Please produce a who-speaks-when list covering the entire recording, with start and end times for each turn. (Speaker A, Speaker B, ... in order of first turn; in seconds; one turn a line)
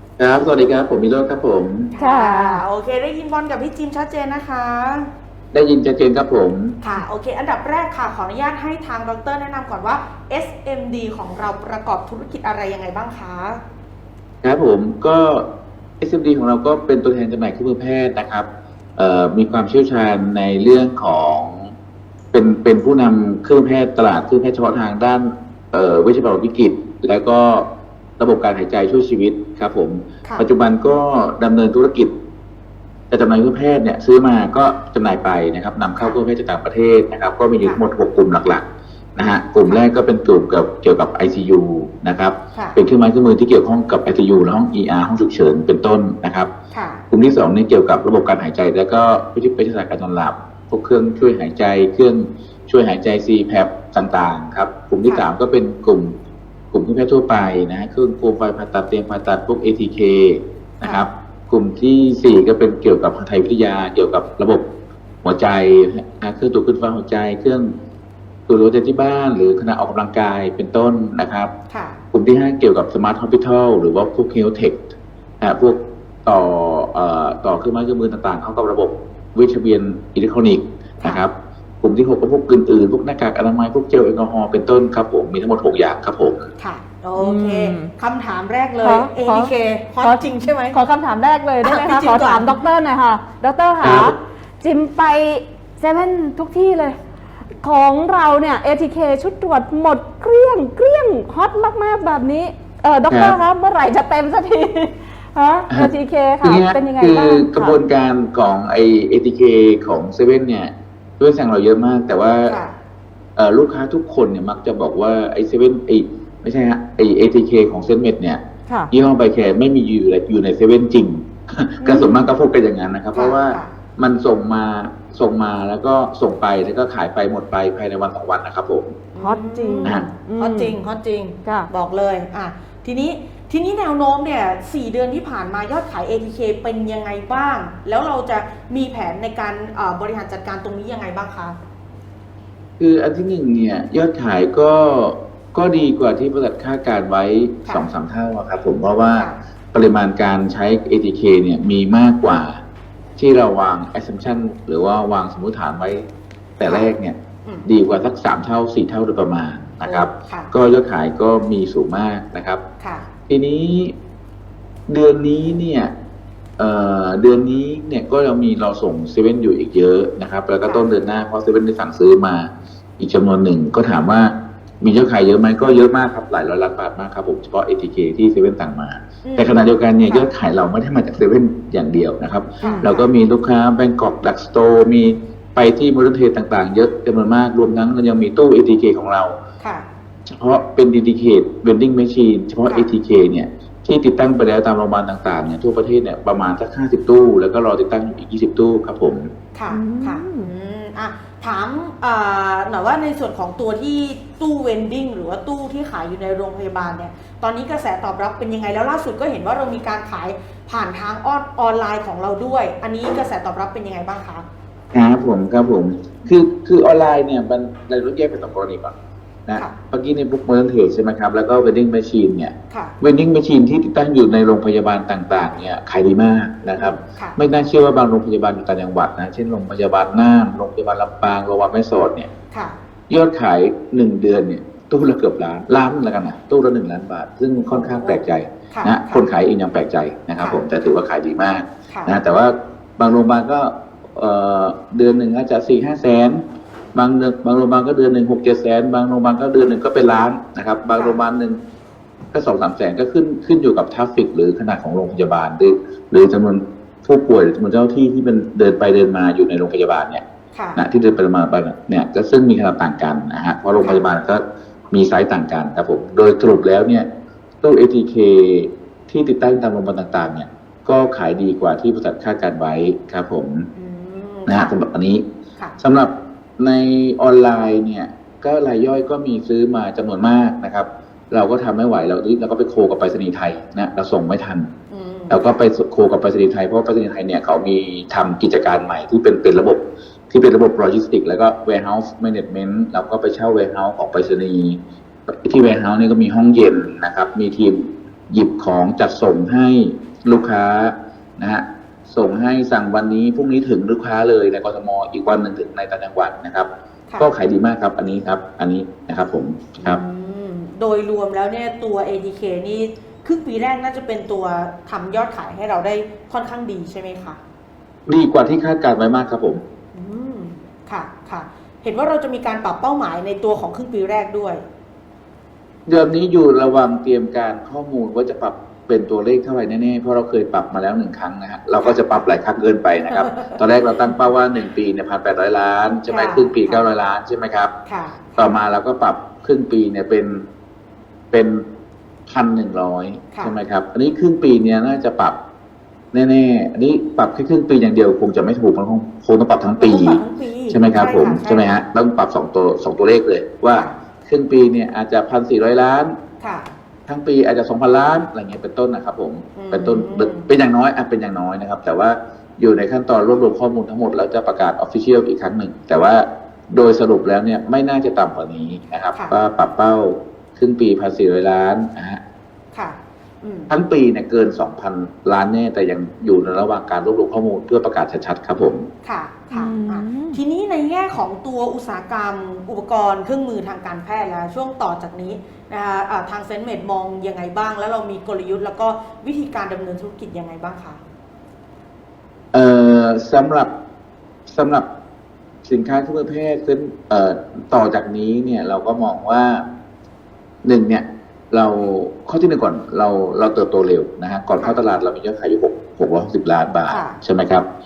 Speaker A: 0.2-1.9
Speaker B: 1.9-5.1
Speaker C: 2.0-2.6
Speaker A: 5.5-6.8
Speaker B: 6.8-13.6
Speaker A: 14.4-15.4
Speaker A: 16.0-21.6
Speaker A: 22.3-27.6
Speaker A: 28.2-32.1
Speaker A: 33.1-38.6
Speaker A: 39.1-46.5
Speaker B: 46.7-47.0
Speaker A: 47.1-56.1
Speaker A: 56.7-64.6
Speaker A: 65.2-67.7
Speaker A: 68.5-71.5
Speaker B: 71.7-72.0
Speaker A: 72.1-74.8
Speaker A: 75.4-86.5
Speaker B: 86.6-90.8
Speaker C: 87.2-87.9
Speaker C: 88.8-97.0
Speaker B: 91.6-92.6
Speaker A: 93.8-94.1
Speaker C: 97.6-107.8
Speaker A: 103.1-103.4
Speaker A: 106.4-112.5
Speaker B: 112.5-112.7
Speaker A: 113.3-118.4
Speaker A: 118.9-129.0
Speaker B: 121.8-122.1
Speaker B: 123.1-123.7
Speaker B: 129.1-141.6
Speaker C: 129.2-130.8
Speaker A: 142.8-152.6
Speaker A: 153.2-156.1
Speaker A: 156.6-157.1
Speaker B: 156.6-156.9
Speaker A: 157.7-162.6
Speaker B: 159.8-160.5
Speaker B: 162.8-163.1
Speaker A: 163.3-163.9
Speaker A: 164.9-165.9
Speaker A: 166.6-189.4
Speaker B: 179.2-180.3
Speaker B: 182.6-183.1
Speaker B: 189.6-189.8
Speaker A: 190.3-199.3
Speaker B: 192.7-192.9
Speaker B: 199.5-214.4
Speaker C: 199.7-200.5
Speaker A: 214.9-218.9
Speaker A: 219.4-232.3
Speaker B: 226.8-227.4
Speaker B: 232.5-232.8
Speaker A: 233.1-246.4
Speaker B: 237.7-239.2
Speaker B: 240.4-240.6
Speaker B: 241.9-242.2
Speaker A: 246.9-251.6
Speaker B: 250.9-251.2
Speaker A: 252.3-260.2
Speaker B: 260.5-260.8
Speaker A: 260.8-267.1
Speaker B: 263.8-264.1
Speaker A: 267.6-273.7
Speaker B: 273.7-274.7
Speaker A: 274.5-275.2
Speaker A: 275.8-284.7
Speaker B: 284.9-285.6
Speaker A: 285.3-294.8
Speaker A: 295.3-310.0
Speaker B: 309.8-317.4
Speaker A: 318.1-319.6
Speaker B: 319.9-324.6
Speaker A: 325.9-337.7
Speaker B: 331.8-332.3
Speaker B: 333.1-334.1
Speaker B: 336.1-336.9
Speaker B: 337.9-338.5
Speaker A: 338.4-340.4
Speaker A: 341.3-341.6
Speaker A: 342.3-345.4
Speaker A: 346.1-356.1
Speaker B: 349.8-351.8
Speaker B: 356.4-356.7
Speaker A: 357.1-372.2
Speaker B: 359.5-360.5
Speaker B: 372.7-373.7
Speaker A: 373.7-378.9
Speaker B: 379.0-391.0
Speaker C: 379.5-380.4
Speaker A: 392.5-393.7
Speaker A: 394.5-394.9
Speaker A: 395.6-399.6
Speaker A: 400.6-407.6
Speaker B: 404.6-404.8
Speaker B: 406.9-407.2